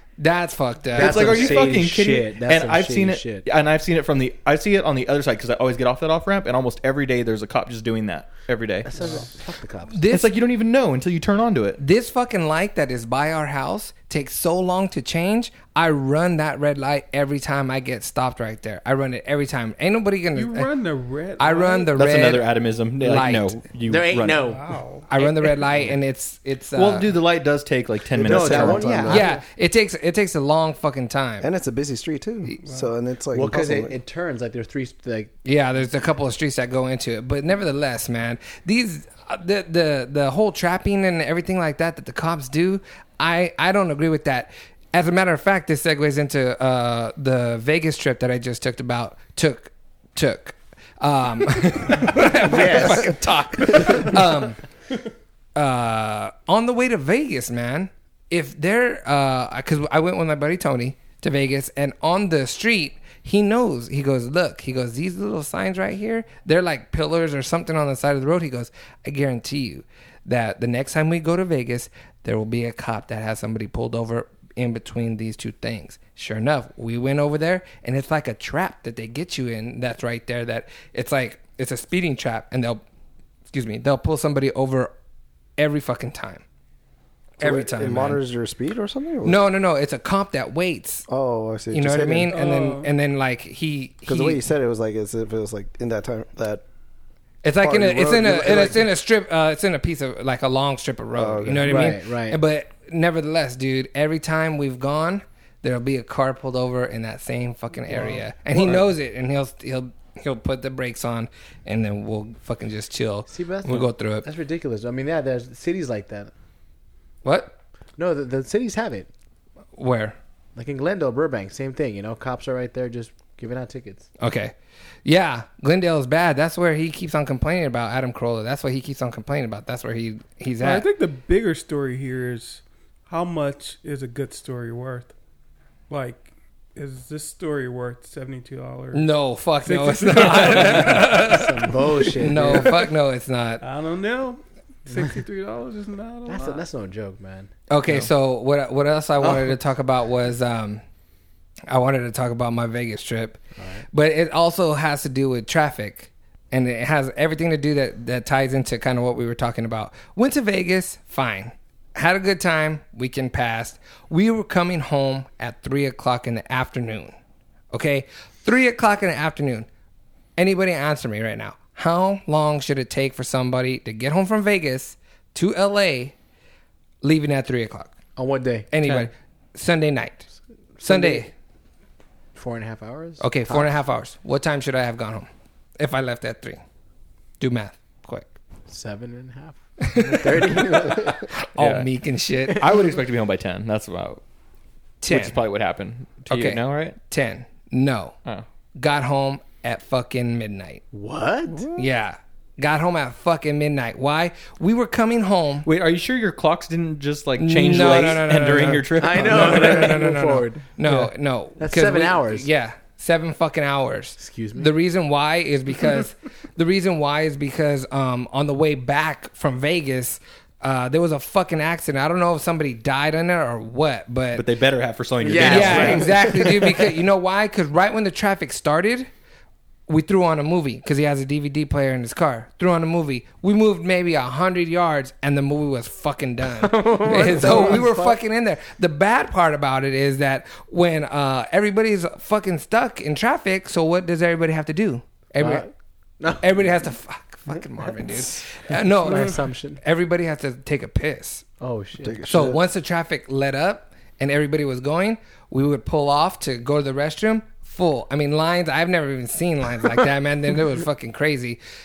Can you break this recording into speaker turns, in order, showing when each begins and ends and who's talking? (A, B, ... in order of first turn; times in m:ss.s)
0:00.2-0:01.5 A
0:00.9-0:03.4 B
0:00.9-0:08.9 C
0:08.9-0:10.0 B
0:09.0-0:09.2 D
0:09.9-0:10.2 A
0:10.1-0:11.8 C
0:11.8-0:20.7 A
0:20.3-0:21.9 D
0:21.4-0:23.6 A
0:21.9-0:24.5 C
0:23.9-0:24.6 B
0:24.5-0:25.1 D
0:25.1-0:27.1 A
0:26.8-0:29.1 C
0:28.1-0:29.3 E
0:28.2-0:29.4 B
0:29.1-0:31.5 A
0:31.4-0:34.0 E
0:33.3-0:35.3 B
0:35.4-0:54.6 A
0:52.4-0:53.2 B
0:55.5-1:22.8 A
1:23.5-1:24.9 A
1:25.6-1:26.4 A
1:27.4-1:28.2 A
1:27.4-1:29.4 E
1:29.2-1:31.0 A
1:31.1-1:32.3 E
1:31.7-1:34.4 A
1:32.3-1:32.9 D
1:34.0-1:36.6 E
1:37.4-1:54.3 A
1:37.6-1:38.9 E
1:41.2-1:41.9 E
1:41.6-1:42.4 B
1:48.0-1:48.8 B
1:53.3-1:56.3 B
1:57.2-1:57.5 A
1:58.0-1:59.1 B
1:59.8-2:00.2 A
2:00.5-2:04.1 B
2:04.2-2:04.5 A
2:05.0-2:10.9 A
2:10.6-2:15.1 D
2:15.9-2:19.1 D
2:18.9-2:23.6 A
2:19.6-2:21.2 D
2:20.7-2:22.8 B
2:23.6-2:26.6 D
2:24.9-2:25.2 B
2:26.3-2:27.5 B
2:27.7-2:30.8 A
2:29.2-2:29.5 B
2:31.7-2:33.4 A
2:33.6-2:33.8 B
2:33.9-2:47.2 A
2:47.7-2:49.7 A
2:50.4-2:56.1 A
2:57.0-2:57.9 A
2:58.2-2:58.7 B
2:58.7-3:00.3 A
2:58.8-2:59.1 C
3:00.8-3:01.2 B
3:00.8-3:01.3 A
3:02.3-3:03.7 B
3:03.2-3:06.6 A
3:07.4-3:08.3 A
3:08.7-3:11.2 B
3:09.9-3:10.7 A
3:11.3-3:12.6 A
3:11.6-3:11.9 C
3:12.5-3:12.8 B
3:12.6-3:14.2 C
3:15.0-3:15.4 A
3:15.1-3:17.0 C
3:16.3-3:18.1 A
3:18.8-3:20.8 A
3:20.9-3:21.7 B
3:21.7-3:25.7 A
3:25.6-3:30.0 C
3:27.4-3:44.4 A
3:29.0-3:32.5 B
3:34.2-3:34.7 B
3:44.3-3:46.1 C
3:45.2-3:46.9 B
3:45.4-3:49.1 A
3:49.9-4:05.6 A
3:56.6-3:58.2 B
4:05.4-4:05.7 B
4:06.2-4:06.6 B
4:06.4-4:11.4 A
4:07.5-4:09.8 B
4:11.6-4:12.2 B
4:12.0-4:12.6 E
4:12.3-4:21.6 A